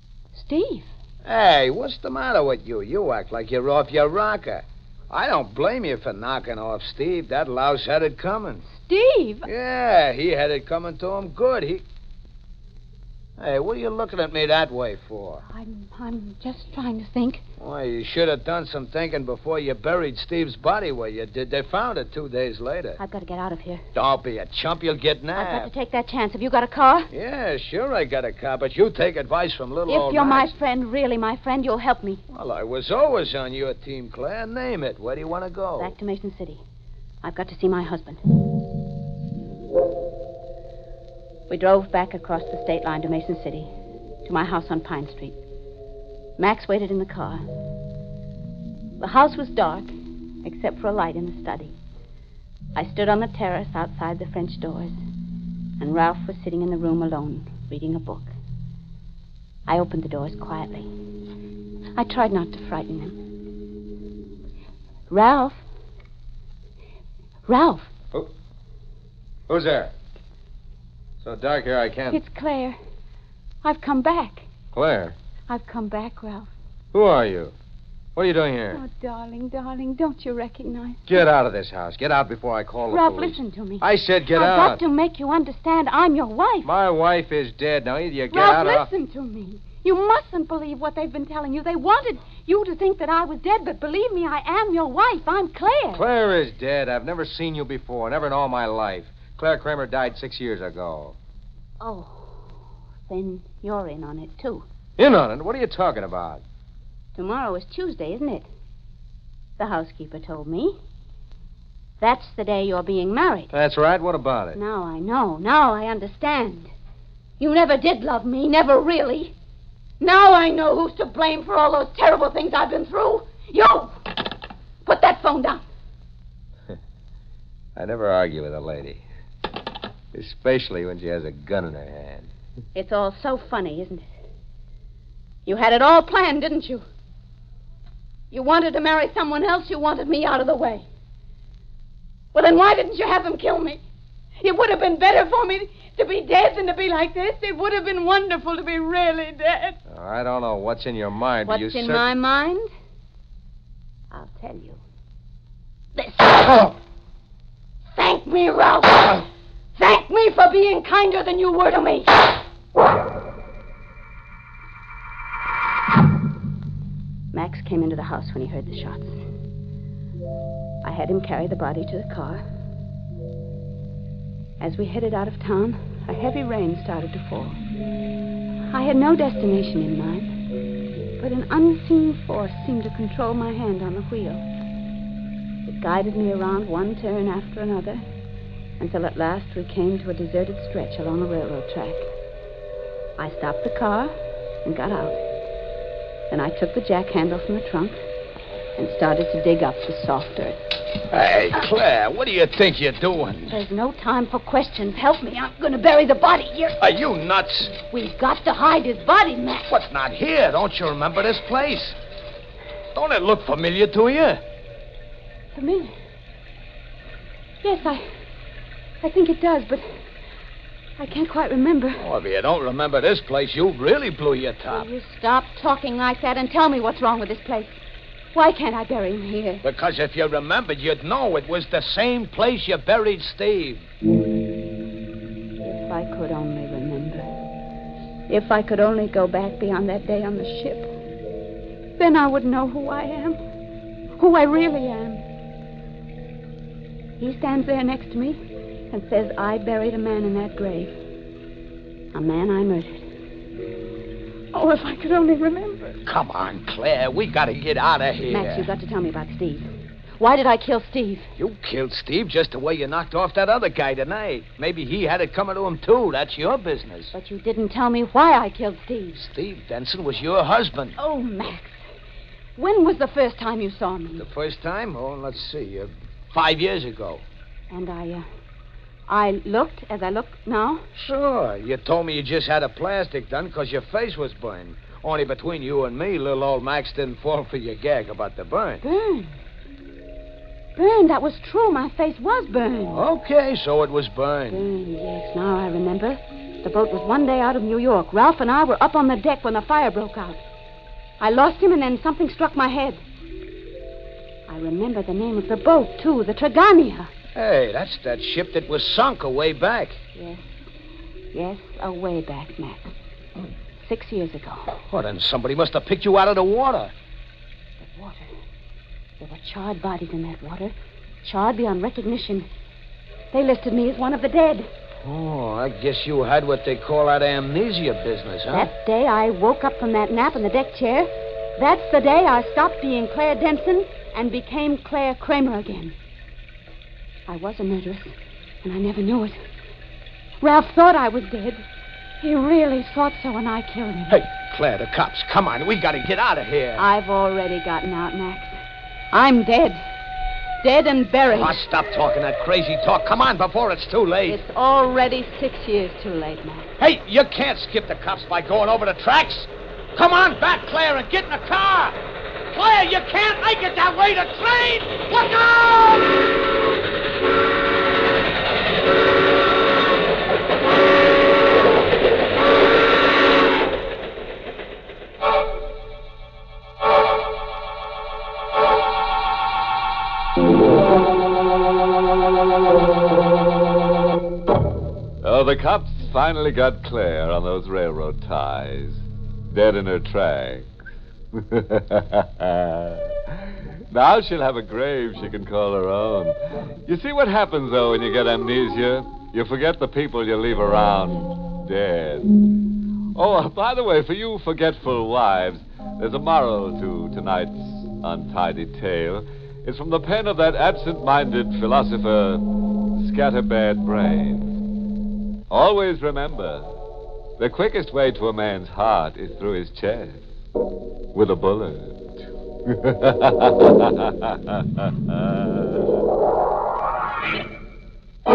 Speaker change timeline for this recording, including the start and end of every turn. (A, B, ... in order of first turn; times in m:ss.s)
0:00.3-0:00.9 A
0:01.2-0:08.6 B
0:08.7-0:09.5 A
0:09.4-0:11.8 B
0:13.4-0:15.4 B
0:15.5-0:17.4 A
0:17.6-0:23.0 B
0:23.0-0:23.8 A
0:24.0-0:25.7 B
0:25.4-0:27.1 A
0:27.1-0:30.5 B
0:29.9-0:32.2 A
0:32.3-0:35.9 B
0:35.8-0:36.6 A
0:37.2-0:38.2 A
0:41.5-0:43.7 A
0:44.2-0:45.4 A
0:46.4-0:47.4 A
0:49.0-0:49.9 A
0:50.4-0:51.8 A
0:52.8-0:55.0 A
0:55.8-0:58.3 A
0:59.7-1:00.9 A
1:02.0-1:03.2 A
1:05.1-1:05.6 A
1:07.5-1:07.9 A
1:09.5-1:09.9 C
1:11.2-1:12.2 C
1:12.1-1:12.8 A
1:13.6-1:14.5 A
1:14.7-1:15.2 C
1:15.5-1:16.5 A
1:16.9-1:17.5 C
1:18.2-1:18.8 C
1:18.7-1:21.0 A
1:21.1-1:24.8 C
1:22.9-1:26.7 A
1:26.6-1:28.9 C
1:28.3-1:36.0 A
1:35.9-1:41.2 C
1:41.8-1:42.3 A
1:43.1-1:44.6 A
1:45.0-1:46.4 C
1:47.2-1:48.5 A
1:49.6-1:50.8 A
1:52.0-1:53.5 A
1:53.5-1:54.6 C
1:54.6-1:56.7 A
1:57.4-1:59.3 A
2:00.0-2:04.0 A
2:04.8-2:05.6 A
2:07.8-2:09.0 C
2:10.1-2:12.3 C
2:12.8-2:14.0 A
2:15.5-2:16.8 A
2:18.3-2:20.8 A
2:22.3-2:23.8 A
2:24.4-2:29.8 A
2:29.9-2:32.0 C
2:31.5-2:32.7 A
2:34.1-2:34.8 A
2:36.0-2:36.7 A
2:38.0-2:39.2 A
2:39.8-2:42.2 A
2:47.3-2:49.1 A
2:50.8-2:52.4 A
2:54.6-2:57.6 A
2:58.7-3:00.3 A
3:01.2-3:04.4 A
3:05.6-3:08.0 A
3:08.8-3:12.0 A
3:13.2-3:14.1 A
3:14.6-3:15.2 A
3:16.3-3:18.0 A
3:18.8-3:20.6 A
3:21.1-3:23.5 B
3:23.5-3:26.8 A
3:26.8-3:27.8 B
3:27.9-3:29.7 A
3:29.7-3:31.9 B
3:32.9-3:34.4 B
3:35.5-3:35.9 A
3:37.6-3:38.0 A
3:39.0-3:39.8 A
3:41.0-3:42.0 A
3:42.0-3:44.9 B
3:44.7-3:47.8 A
3:48.3-3:49.6 A
3:49.6-3:53.9 B
3:55.6-3:57.2 A
3:58.3-4:00.9 A
4:02.0-4:03.4 A
4:04.2-4:05.2 A
4:07.2-4:08.4 A
4:08.9-4:11.0 A
4:12.1-4:13.0 A
4:14.5-4:16.0 A
4:16.1-4:18.7 B
4:18.3-4:19.7 A
4:20.2-4:21.3 A
4:21.4-4:27.1 B
4:27.1-4:29.2 A
4:29.2-4:31.0 B
4:31.0-4:31.8 A
4:32.6-4:34.3 A
4:34.2-4:37.2 B
4:37.7-4:38.2 A
4:39.1-4:40.8 A
4:41.0-4:48.8 B
4:48.8-4:49.3 A
4:50.8-4:53.0 A
4:52.9-4:54.6 B
4:54.5-5:00.4 A
5:01.2-5:03.0 A
5:04.5-5:07.1 A
5:07.4-5:10.0 B
5:10.2-5:10.4 A
5:11.3-5:12.9 A
5:13.8-5:14.7 A
5:14.9-5:16.9 B
5:17.8-5:18.3 A
5:19.2-5:22.5 A
5:23.3-5:24.7 A
5:25.0-5:28.7 B
5:28.5-5:36.0 A
5:37.3-5:39.4 A
5:40.4-5:41.6 A
5:42.2-5:44.2 A
5:44.1-5:46.8 B
5:46.8-5:48.5 A
5:49.1-5:49.8 A
5:50.6-5:51.6 A
5:51.3-5:54.4 B
5:54.3-5:56.7 A
5:56.8-6:02.0 B
6:02.5-6:06.2 B
6:25.2-6:30.7 D
6:31.3-6:36.4 D
6:36.9-6:42.3 D
6:43.2-6:52.4 D
6:53.0-6:54.6 D
6:55.5-6:56.7 D
6:57.4-7:00.2 D
7:01.1-7:02.0 D
7:02.7-7:05.8 D